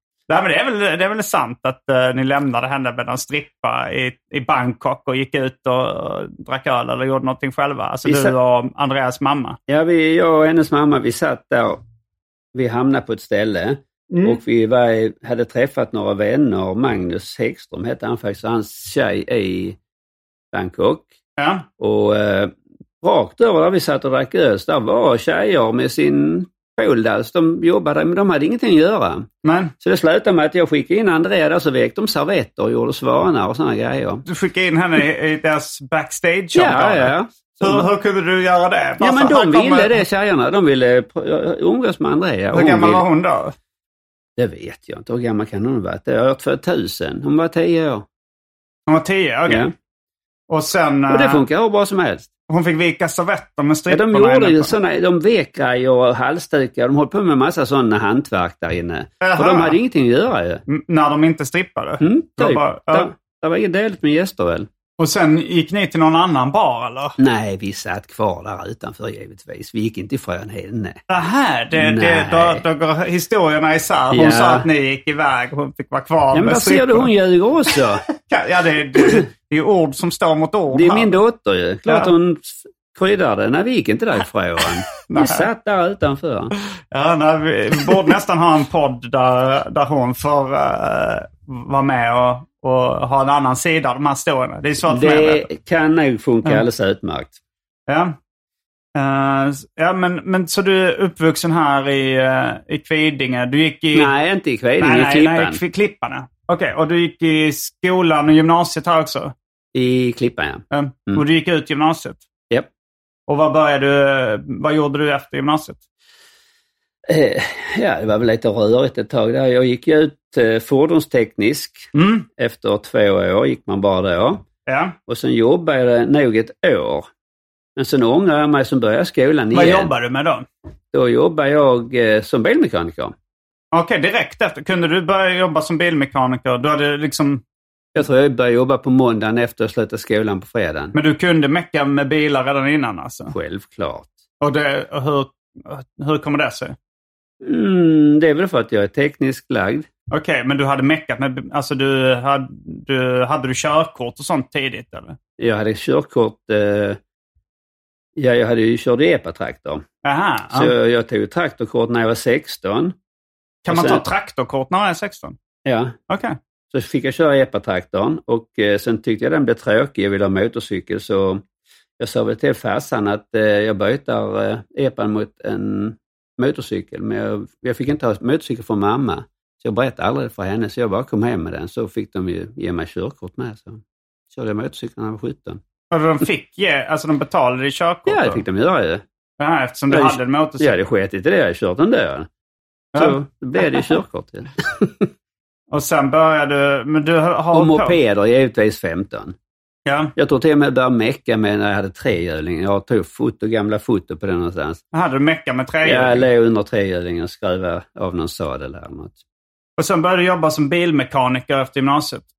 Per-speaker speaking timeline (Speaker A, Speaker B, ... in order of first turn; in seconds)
Speaker A: 0.3-9.6, 14.1-14.4, 21.4-21.6, 29.4-29.7, 34.3-39.9, 42.5-43.5, 48.9-49.7, 50.5-51.4, 52.5-54.7, 59.2-59.8, 60.7-63.1, 65.0-67.2, 71.1-77.1, 78.2-81.2, 81.9-82.1, 85.1-85.5, 86.9-95.5, 97.9-98.2, 98.9-104.1, 104.8-109.3, 110.7-112.2, 113.3-115.8, 121.9-122.3, 124.7-124.9, 129.5-130.5, 133.7-137.4, 140.9-143.3, 144.4-146.8, 150.1-155.2, 160.0-160.7, 163.6-165.4, 166.1-166.3, 185.9-188.4, 189.4-190.8, 195.7-197.9, 199.8-200.1, 204.9-206.2, 209.8-212.2
Speaker B: 8.0-8.3, 9.7-11.8, 12.5-19.8, 20.5-21.1, 21.8-29.3, 29.8-34.2, 36.5-37.9, 39.0-43.0, 44.4-48.0, 49.5-49.7, 51.1-52.3, 53.9-60.6, 62.0-64.7, 67.2-71.0, 71.7-72.6, 74.1-74.7, 76.3-78.0, 79.0-79.2, 80.7-86.5, 94.9-97.3, 103.9-105.6, 109.7-111.2, 117.1-124.5, 125.1-127.1, 127.8-129.9, 130.9-133.1, 137.9-140.9, 143.3-144.1, 147.4-149.9, 155.4-157.0, 158.2-159.8, 160.5-162.9, 163.7-164.0, 165.6-166.0, 166.7-171.4, 172.0-185.6, 188.1-189.0, 189.9-192.3, 192.9-195.0, 197.5-199.3, 200.2-204.8, 205.8-209.2